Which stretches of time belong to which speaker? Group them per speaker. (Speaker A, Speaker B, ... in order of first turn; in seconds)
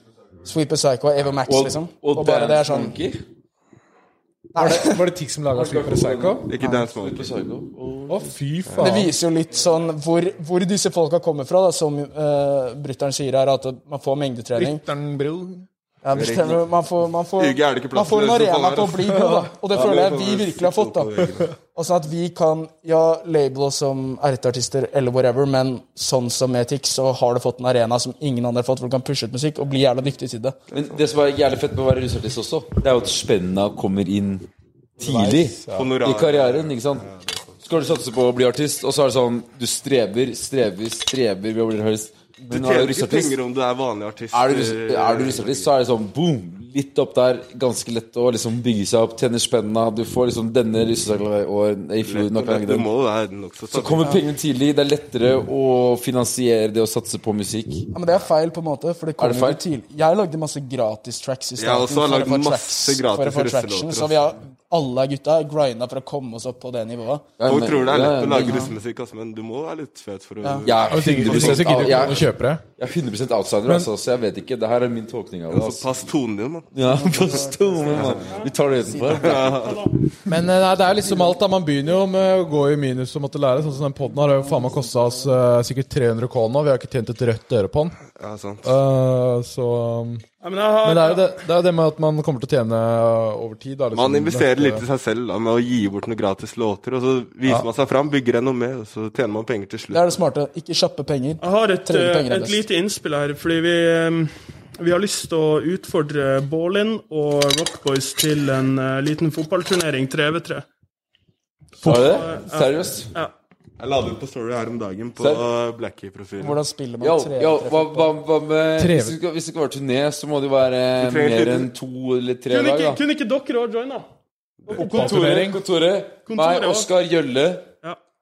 Speaker A: 0.4-3.0, 4.5-5.0, 6.6-6.9, 8.8-14.8, 16.0-21.1, 21.7-30.6, 57.9-67.3, 70.4-70.7, 76.8-78.3, 78.9-79.4, 99.9-102.6, 116.4-118.1
Speaker B: 1.5-3.2, 5.5-8.2, 30.7-34.5, 35.0-37.1, 37.6-43.4, 44.3-52.9, 53.7-57.9, 59.2-59.6, 67.4-68.7, 70.6-76.1, 76.7-79.8, 111.8-113.1, 115.2-115.5, 117.0-123.0, 124.8-127.7
Speaker C: 4.5-6.5, 8.1-9.1, 14.6-15.7, 19.1-19.5, 35.0-35.9, 70.9-72.6, 80.3-88.0, 88.6-90.3, 90.8-94.8, 118.8-119.2, 124.7-125.6
Speaker D: 6.5-7.3, 8.7-9.0, 16.1-16.6, 17.4-19.1, 19.7-21.6, 35.7-37.5, 42.5-45.7, 52.0-54.1, 61.6-64.3, 67.5-72.3, 75.5-76.7, 77.8-78.4, 79.1-79.9, 88.2-88.7, 93.9-100.1, 113.8-116.6, 121.0-121.7
Speaker E: 79.5-80.0, 90.4-91.3, 101.4-110.7, 111.8-113.3, 122.5-124.1, 124.7-125.5, 126.3-126.9